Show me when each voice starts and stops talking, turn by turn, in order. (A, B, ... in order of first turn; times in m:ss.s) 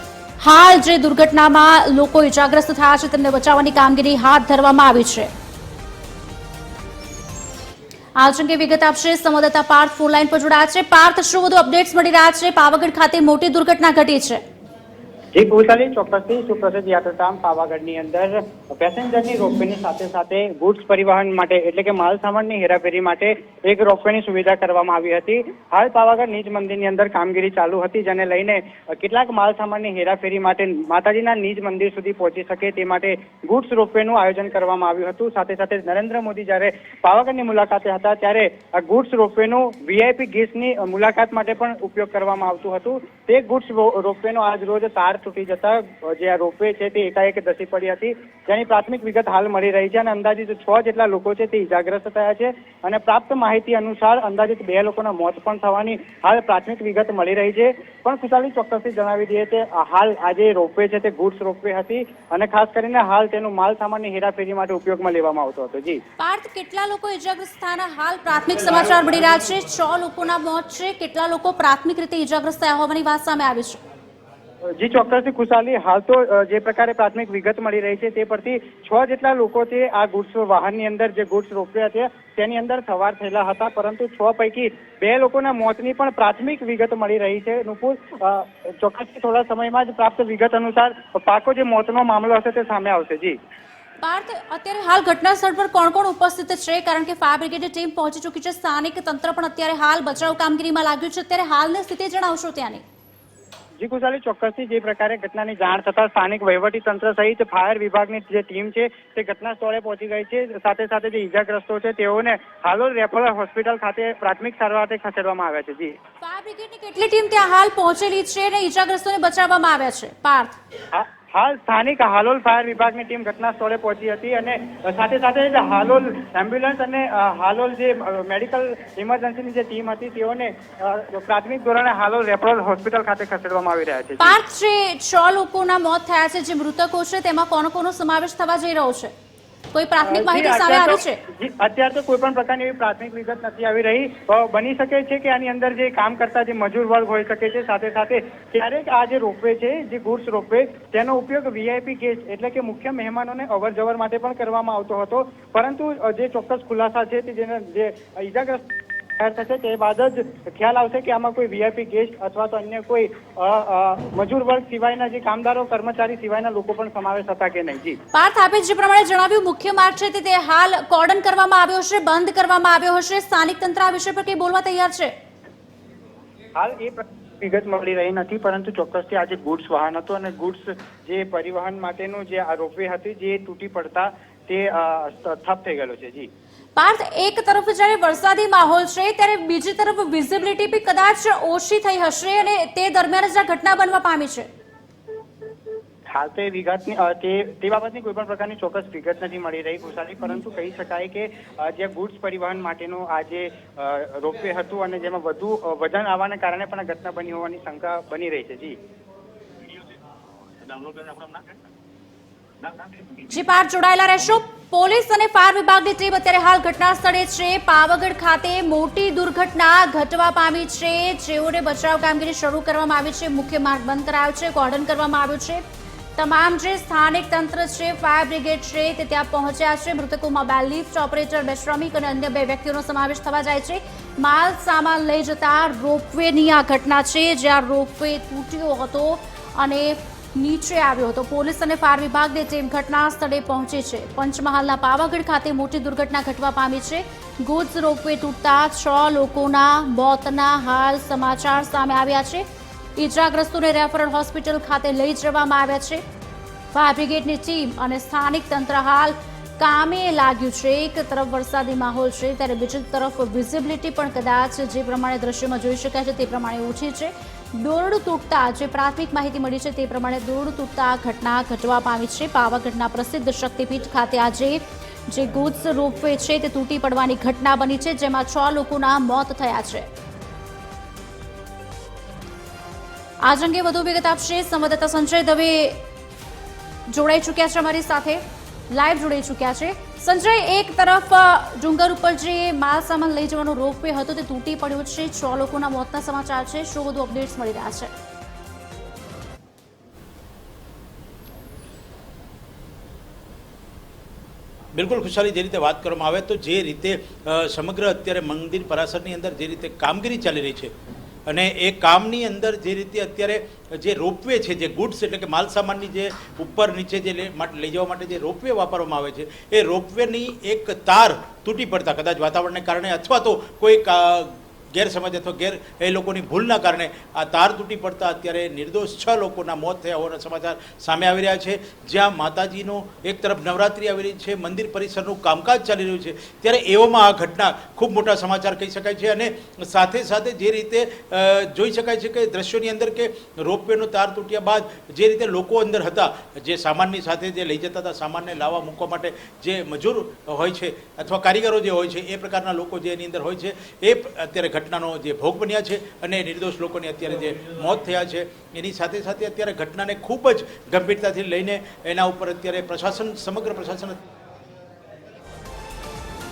0:00.4-0:05.3 A
0:08.2-0:14.4 A
0:15.3-1:06.0 B
1:06.2-1:13.8 A
1:14.8-1:33.4 B
1:34.0-1:42.8 A
1:43.8-1:56.0 B
1:56.2-2:00.5 A
2:00.9-2:14.4 B
2:14.2-2:19.1 A
2:19.7-2:21.2 A
2:20.0-2:38.6 B
2:39.2-2:48.0 B
2:48.1-2:55.1 A
2:56.6-3:06.3 B
3:06.8-3:14.5 A
3:16.1-3:28.8 B
3:33.3-3:45.6 A
3:46.2-4:16.0 A
4:16.7-4:39.9 A
4:43.2-4:45.8 A
4:46.9-4:57.9 A
5:04.7-5:10.7 C
5:11.3-6:04.0 C